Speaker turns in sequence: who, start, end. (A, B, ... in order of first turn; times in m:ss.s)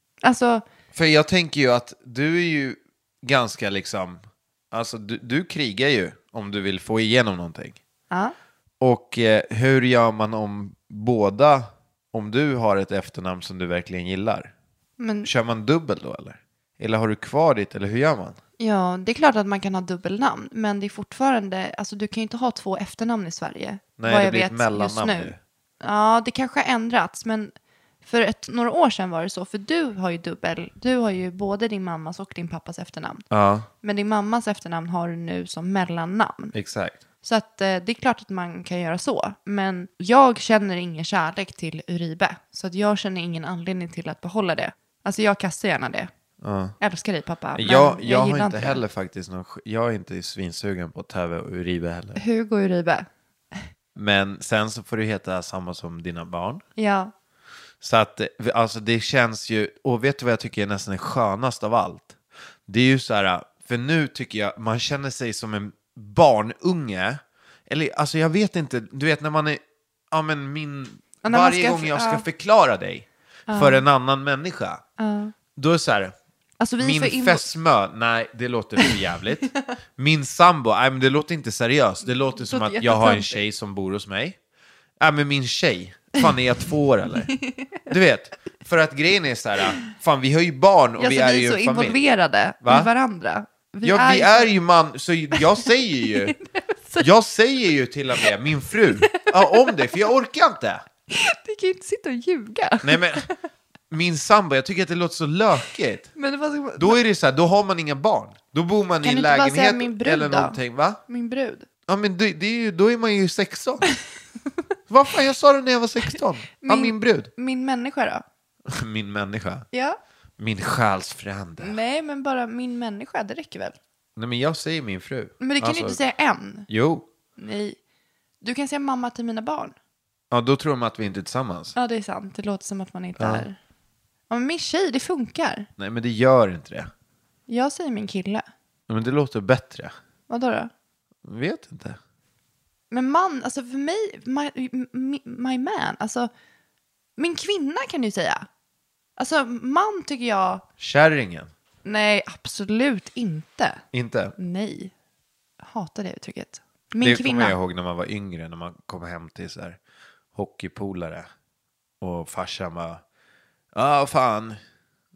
0:00.2-0:00.6 A
0:00.9-0:04.2 B
0:04.7-0:07.8 B
0:08.8-0:14.5 B
0:15.0-0:15.3 A
0:15.2-0:18.4 B
0:18.6-0:27.5 A
0:24.0-0:25.4 B
0:28.0-0:33.2 A
0:33.3-0:33.7 B
0:33.8-0:36.5 A
0:36.5-0:37.0 B
0:37.2-0:46.1 A
0:46.4-0:46.8 B
0:46.8-0:48.8 A
0:47.6-0:52.2 B
0:52.2-0:53.1 A
0:53.9-0:56.6 B
0:56.8-0:57.1 A
0:57.8-1:02.1 B
1:02.7-1:09.6 B
1:10.1-1:14.8 B
1:11.2-1:12.2 A
1:13.5-1:13.8 A
1:15.0-1:15.3 A
1:15.6-1:16.1 B
1:16.6-1:17.4 A
1:16.8-1:24.4 B
1:22.3-1:23.4 A
1:25.0-1:27.3 B
1:27.3-1:27.6 A
1:27.9-1:32.0 B
1:31.0-1:34.5 A
1:32.6-1:32.9 B
1:33.8-1:36.4 B
1:35.3-1:35.6 A
1:36.1-1:37.1 A
1:37.0-1:40.8 B
1:39.1-1:39.9 A
1:41.1-1:43.3 A
1:42.8-1:43.3 B
1:43.9-1:46.1 B
1:46.2-1:47.0 A
1:46.8-1:51.0 B
1:49.0-1:51.7 A
1:51.9-1:53.9 B
1:54.9-1:57.3 B
1:56.6-1:58.2 A
1:58.7-1:59.6 B
1:59.7-2:00.0 A
2:00.4-2:01.8 B
2:01.6-2:03.8 A
2:04.2-2:06.0 B
2:05.4-2:06.7 A
2:06.7-2:07.0 B
2:07.4-2:07.8 A
2:08.4-2:09.7 A
2:10.3-2:11.8 B
2:11.8-2:13.6 A
2:13.2-2:13.4 B
2:14.3-2:15.7 A
2:15.8-2:16.9 B
2:17.5-2:18.4 A
2:18.9-2:19.9 B
2:20.3-2:20.7 A
2:21.2-2:22.0 B
2:22.9-2:26.3 A
2:27.2-2:28.5 A
2:29.2-2:30.6 A
2:30.8-2:31.5 B
2:31.8-2:33.8 A
2:33.9-2:34.3 B
2:34.4-2:34.9 A
2:35.6-2:37.6 A
2:37.0-2:39.8 B
2:40.3-2:41.3 B
2:42.0-2:43.0 B
2:43.7-2:44.6 B